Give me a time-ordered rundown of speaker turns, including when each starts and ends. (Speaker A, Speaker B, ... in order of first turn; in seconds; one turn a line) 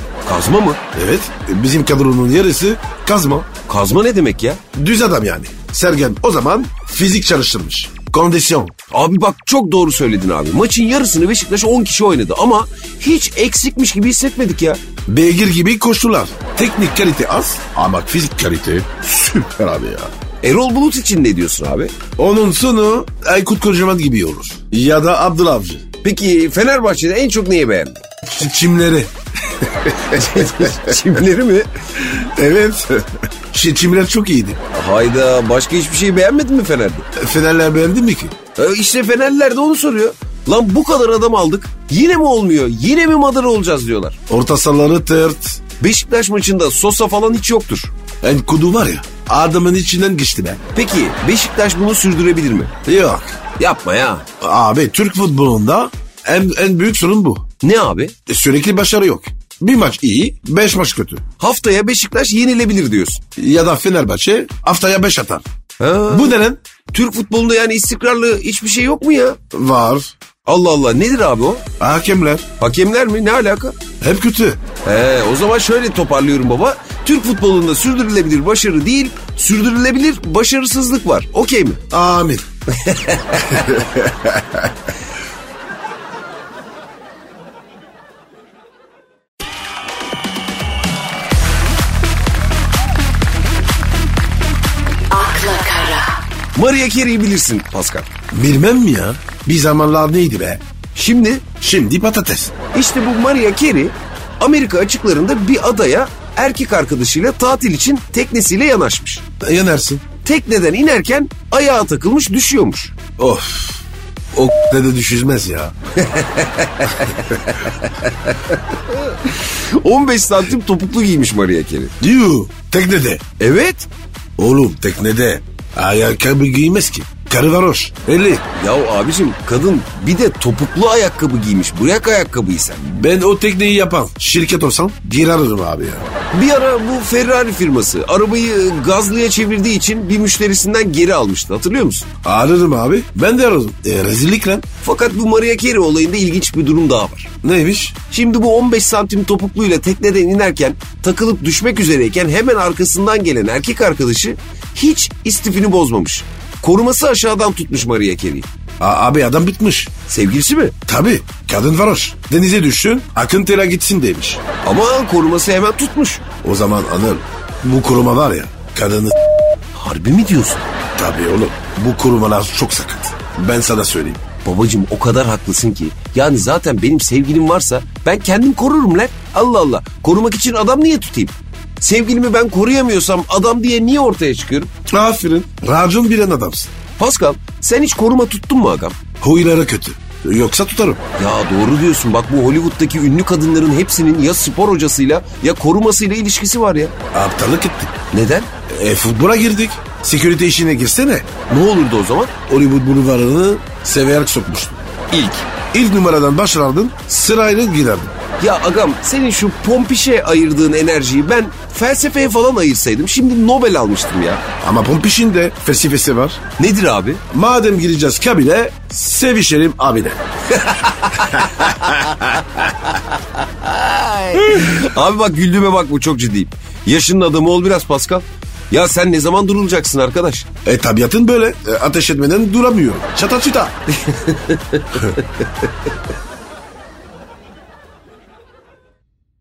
Speaker A: 0.2-0.8
Speaker B: 0.9-3.5
Speaker A: 3.6-4.6
Speaker B: 4.7-8.7
Speaker A: 8.9-14.8
Speaker B: 15.1-20.1
Speaker A: 20.4-21.9
Speaker B: 22.2-25.8
Speaker A: 26.0-28.0
Speaker B: 28.2-31.0
Speaker A: 30.1-31.7
Speaker B: 32.0-34.6
Speaker A: 34.7-37.0
Speaker B: 37.1-38.3
Speaker A: 38.5-44.2
Speaker B: 44.3-45.6
Speaker A: 45.8-47.9
Speaker B: 48.2-50.6
Speaker A: 50.7-52.7
Speaker B: 52.9-53.2
Speaker A: 53.6-54.2
Speaker B: 54.4-57.5
Speaker A: 57.6-58.1
Speaker B: 58.3-61.2
Speaker A: 61.4-63.2
Speaker B: 63.4-65.4
Speaker A: 65.8-69.4
Speaker B: 66.1-66.6
Speaker B: 69.5-70.1
Speaker A: 70.4-71.6
Speaker B: 71.8-72.5
Speaker A: 72.6-73.8
Speaker B: 74.0-74.6
Speaker A: 74.8-81.8
Speaker B: 81.9-82.4
Speaker A: 82.7-83.8
Speaker B: 83.4-84.7
Speaker A: 95.1-98.1
Speaker B: 98.3-100.6
Speaker A: 100.9-101.5
Speaker B: 101.6-102.5
Speaker A: 102.7-109.2
Speaker B: 109.4-110.0
Speaker A: 110.2-113.0
Speaker B: 113.2-115.8
Speaker A: 116.0-121.9
Speaker B: 122.0-123.2
Speaker A: 123.4-123.9
Speaker B: 124.4-128.4
Speaker A: 128.5-132.8
Speaker B: 132.8-136.1
Speaker A: 136.3-142.1
Speaker B: 142.2-144.6
Speaker A: 144.8-147.3
Speaker B: 147.4-148.0
Speaker A: 148.1-158.5
Speaker B: 158.8-159.9
Speaker A: 160.1-160.8
Speaker B: 160.9-164.4
Speaker A: 164.6-166.2
Speaker B: 166.4-169.1
Speaker A: 169.7-170.7
Speaker B: 170.9-174.2
Speaker A: 174.4-184.7
Speaker B: 184.9-186.7
Speaker A: 187.0-189.0
Speaker B: 189.2-191.0
Speaker A: 191.2-196.9
Speaker B: 197.1-197.9
Speaker A: 198.1-198.5
Speaker B: 198.7-201.3
Speaker A: 201.4-202.3
Speaker B: 202.5-204.8
Speaker A: 205.1-205.5
Speaker B: 205.7-208.2
Speaker A: 208.4-214.4
Speaker B: 214.6-216.4
Speaker A: 216.6-217.2
Speaker B: 217.3-220.2
Speaker A: 220.5-230.5
Speaker B: 221.3-221.8
Speaker B: 230.6-233.7
Speaker A: 233.9-235.2